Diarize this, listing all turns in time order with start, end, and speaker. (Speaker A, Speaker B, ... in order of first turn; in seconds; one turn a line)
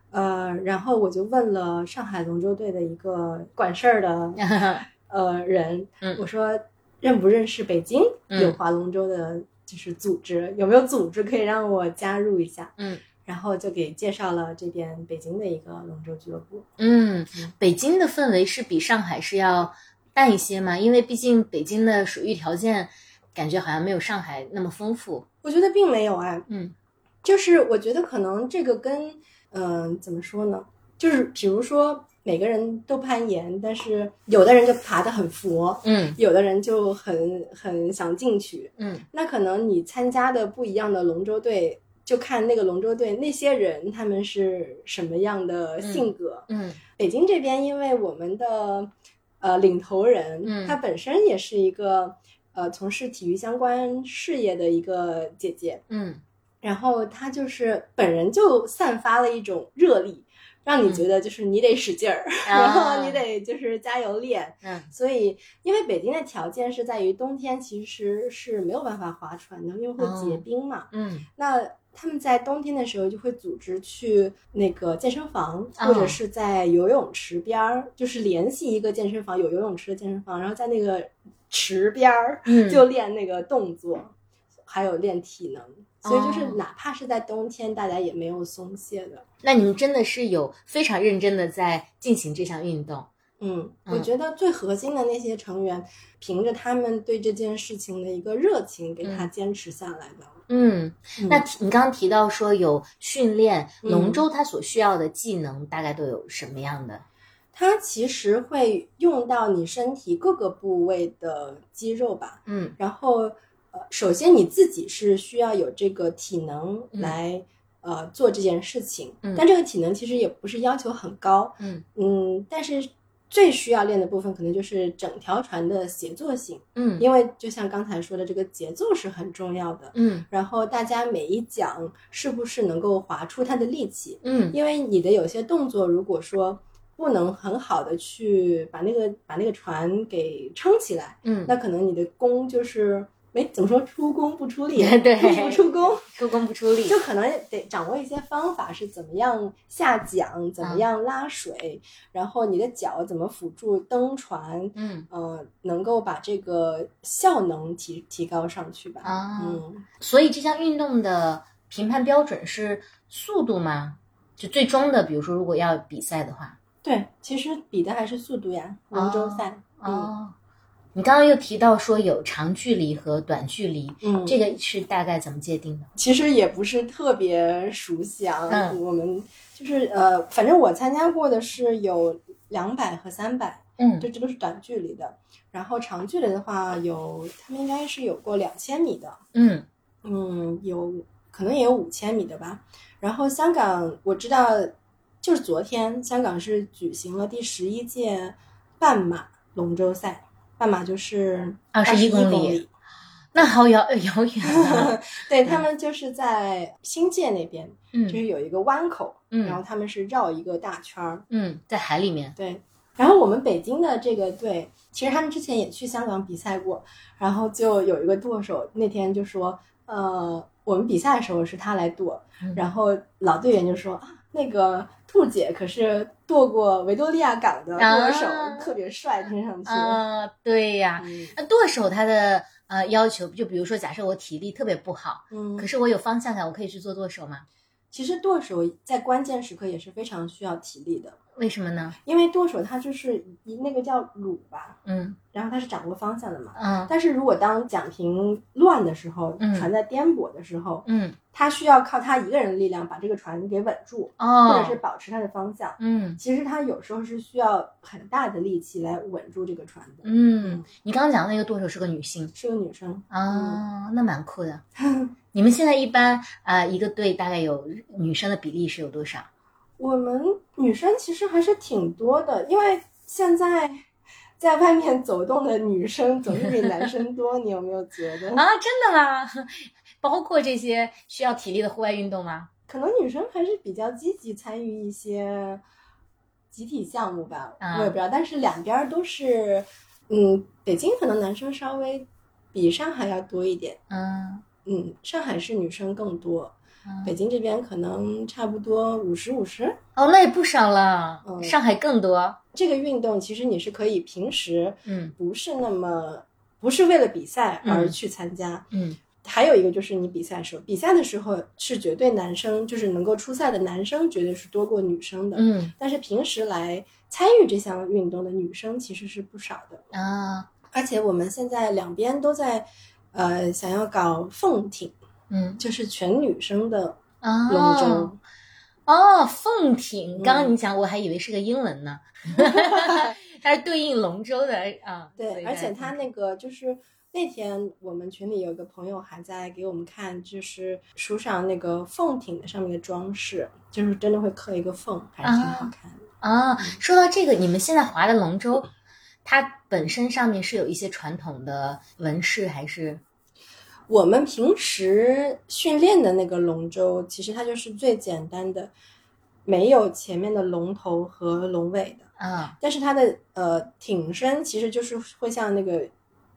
Speaker A: 0.1-4.5
Speaker B: 4.4-4.9
Speaker A: 5.0-16.7
Speaker B: 12.8-13.0
Speaker B: 16.8-25.2
Speaker A: 25.4-26.4
Speaker B: 26.5-26.7
Speaker A: 27.2-48.9
Speaker B: 35.8-36.2
Speaker B: 38.8-39.0
Speaker B: 45.8-46.8
Speaker A: 49.4-55.8
Speaker B: 50.4-50.8
Speaker B: 55.9-56.2
Speaker A: 56.6-84.1
Speaker B: 62.5-63.2
Speaker B: 64.6-64.9
Speaker B: 70.0-71.2
Speaker B: 75.8-76.2
Speaker B: 82.4-82.8
Speaker A: 84.7-89.2
Speaker B: 86.0-86.6
Speaker B: 89.4-93.1
Speaker A: 93.4-100.3
Speaker B: 99.0-99.3
Speaker B: 100.5-107.0
Speaker A: 101.2-101.4
Speaker A: 103.8-104.2
Speaker A: 107.5-146.1
Speaker B: 112.5-112.8
Speaker B: 126.8-127.0
Speaker B: 129.9-130.2
Speaker B: 134.2-134.6
Speaker B: 141.2-141.5
Speaker B: 144.8-147.0
Speaker A: 146.8-159.8
Speaker B: 154.7-155.1
Speaker B: 159.0-166.6
Speaker A: 166.8-170.1
Speaker B: 168.9-170.3
Speaker B: 170.9-175.9
Speaker A: 174.0-174.4
Speaker A: 175.9-189.2
Speaker B: 178.5-178.8
Speaker B: 183.8-184.1
Speaker B: 189.3-189.7
Speaker A: 190.0-202.7
Speaker B: 201.7-202.6
Speaker B: 203.3-205.6
Speaker A: 204.4-211.2
Speaker B: 207.9-208.2
Speaker B: 209.3-209.6
Speaker B: 211.3-212.3
Speaker A: 212.3-230.0
Speaker B: 227.8-228.8
Speaker B: 229.7-237.4
Speaker A: 231.0-231.3
Speaker A: 235.3-235.7
Speaker A: 237.9-241.2
Speaker B: 241.3-242.0
Speaker A: 242.1-244.8
Speaker B: 244.8-245.2
Speaker A: 245.3-260.6
Speaker B: 246.6-246.9
Speaker B: 249.4-249.7
Speaker B: 250.8-251.2
Speaker B: 254.2-254.8
Speaker B: 255.8-256.2
Speaker B: 260.0-262.3
Speaker A: 262.3-263.6
Speaker B: 263.1-264.6
Speaker A: 264.8-265.1
Speaker B: 265.3-269.3
Speaker A: 269.8-273.8
Speaker A: 274.4-278.4
Speaker B: 278.3-282.5
Speaker A: 282.7-285.6
Speaker A: 286.5-293.8
Speaker B: 287.6-287.9
Speaker B: 293.9-294.4
Speaker A: 294.6-299.8
Speaker B: 296.9-297.1
Speaker B: 299.9-302.4
Speaker A: 301.2-301.6
Speaker A: 302.5-308.6
Speaker B: 304.9-305.1
Speaker B: 307.6-307.9
Speaker B: 308.7-309.0
Speaker A: 309.2-319.8
Speaker B: 315.3-315.7
Speaker B: 319.9-320.5
Speaker A: 320.7-324.9
Speaker B: 325.3-325.6
Speaker A: 325.6-328.2
Speaker B: 327.2-328.1
Speaker B: 328.9-336.0
Speaker A: 330.2-330.5
Speaker A: 332.3-333.1
Speaker A: 335.2-346.0
Speaker B: 345.2-348.7
Speaker B: 349.2-353.0
Speaker A: 353.9-358.7
Speaker A: 359.4-362.0
Speaker B: 362.2-362.6
Speaker A: 362.6-365.9